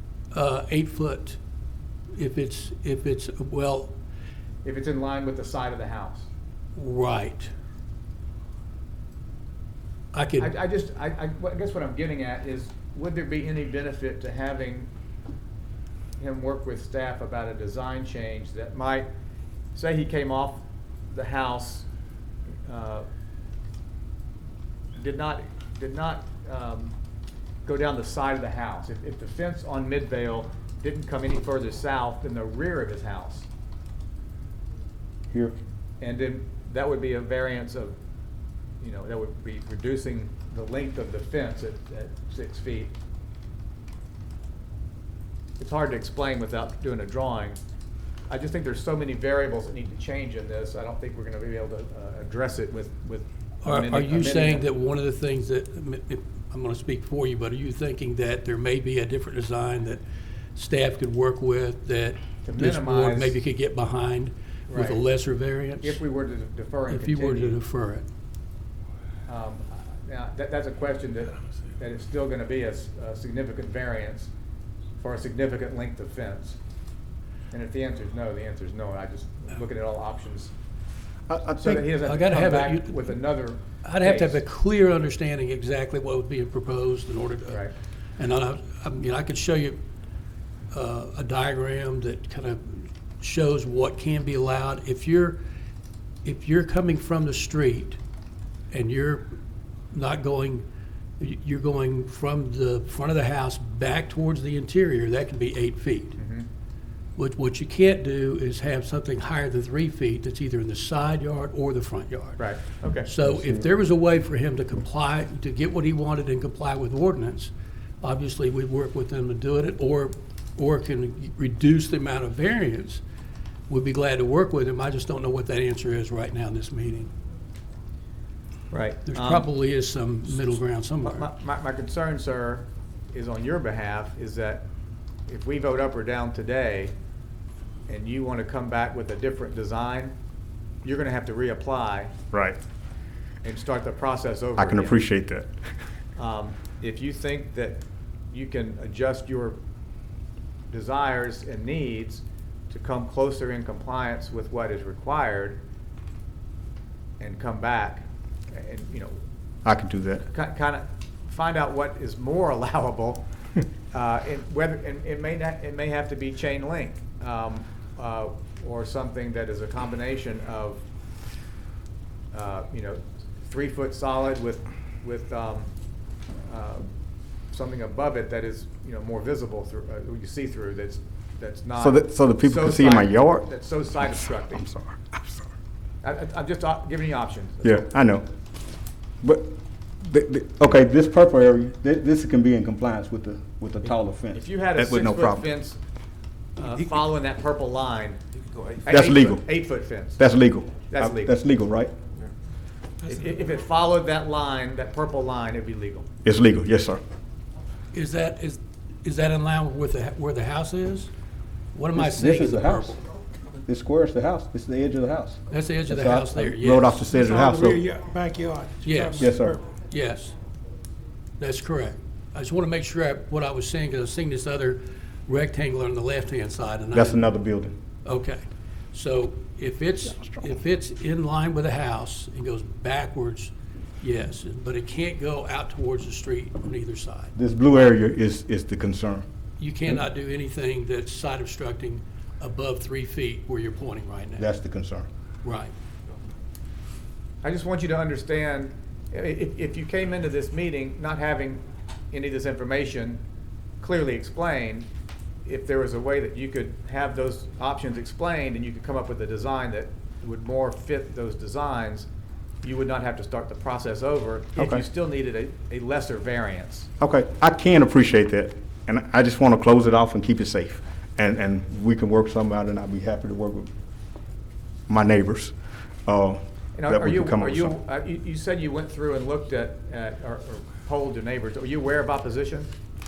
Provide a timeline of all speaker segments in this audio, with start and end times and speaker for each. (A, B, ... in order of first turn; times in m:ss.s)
0:00.3-0:01.4 A
0:02.1-0:03.9 A
0:04.6-0:06.3 B
0:06.8-0:07.5 A
0:10.1-0:10.5 A
0:10.4-0:14.9 B
0:16.2-0:19.1 B
0:19.7-0:21.9 B
0:22.6-0:23.0 B
0:25.0-0:27.0 B
0:27.6-0:33.5 B
0:36.0-0:37.9 B
0:38.8-0:42.9 B
0:45.6-0:47.6 B
0:48.3-0:54.6 B
0:53.6-1:00.0 A
1:00.5-1:06.0 A
1:02.4-1:03.4 B
1:04.7-1:05.0 B
1:05.8-1:07.6 B
1:06.9-1:08.0 A
1:09.3-1:14.3 B
1:15.0-1:16.6 B
1:17.5-1:20.5 B
1:21.3-1:21.9 C
1:21.6-1:24.4 B
1:22.0-1:23.1 A
1:23.8-1:27.6 A
1:28.2-1:29.8 A
1:30.7-1:35.4 A
1:36.2-1:38.0 A
1:38.7-1:39.3 A
1:39.9-1:40.6 A
1:41.2-1:46.2 A
1:46.2-1:46.4 B
1:47.2-1:52.4 A
1:52.4-1:53.1 B
1:53.0-2:03.0 A
1:53.2-1:53.7 C
2:03.7-2:07.1 A
2:08.7-2:09.5 B
2:09.0-2:11.3 A
2:11.0-2:14.6 B
2:15.3-2:16.9 B
2:17.9-2:20.1 B
2:20.8-2:22.1 B
2:22.3-2:22.6 C
2:23.4-2:25.0 B
2:24.6-2:25.5 C
2:26.2-2:29.6 B
2:30.7-2:35.6 B
2:37.2-2:39.2 B
2:39.6-2:40.3 C
2:40.3-2:43.2 B
2:43.9-2:50.8 B
2:52.3-2:55.7 B
2:56.5-2:56.9 B
2:57.5-3:04.7 B
3:01.8-3:03.5 C
3:04.6-3:05.4 C
3:06.0-3:07.8 B
3:07.6-3:08.2 C
3:09.2-3:15.5 C
3:14.3-3:15.8 B
3:16.6-3:18.2 B
3:18.5-3:18.8 D
3:18.8-3:20.2 B
3:18.9-3:19.4 C
3:20.2-3:21.9 C
3:20.9-3:21.3 B
3:23.0-3:26.1 B
3:26.2-3:27.0 C
3:27.9-3:31.1 A
3:31.7-3:33.0 A
3:31.9-3:33.0 C
3:33.6-3:37.8 C
3:35.5-3:37.0 A
3:37.1-3:39.6 D
3:38.8-3:40.3 A
3:39.2-3:39.6 C
3:41.4-3:47.3 A
3:46.9-3:47.7 C
3:48.0-3:48.4 A
3:48.9-3:57.3 A
3:57.4-3:59.2 C
3:59.6-4:04.4 A
4:04.4-4:05.1 C
4:05.4-4:05.7 A
4:07.4-4:13.2 B
4:13.8-4:14.9 B
4:15.4-4:22.1 B
4:22.6-4:26.9 B
4:24.6-4:24.8 C
4:27.0-4:33.7 C
4:34.9-4:35.5 C
4:36.0-4:37.7 C
4:36.8-4:42.7 B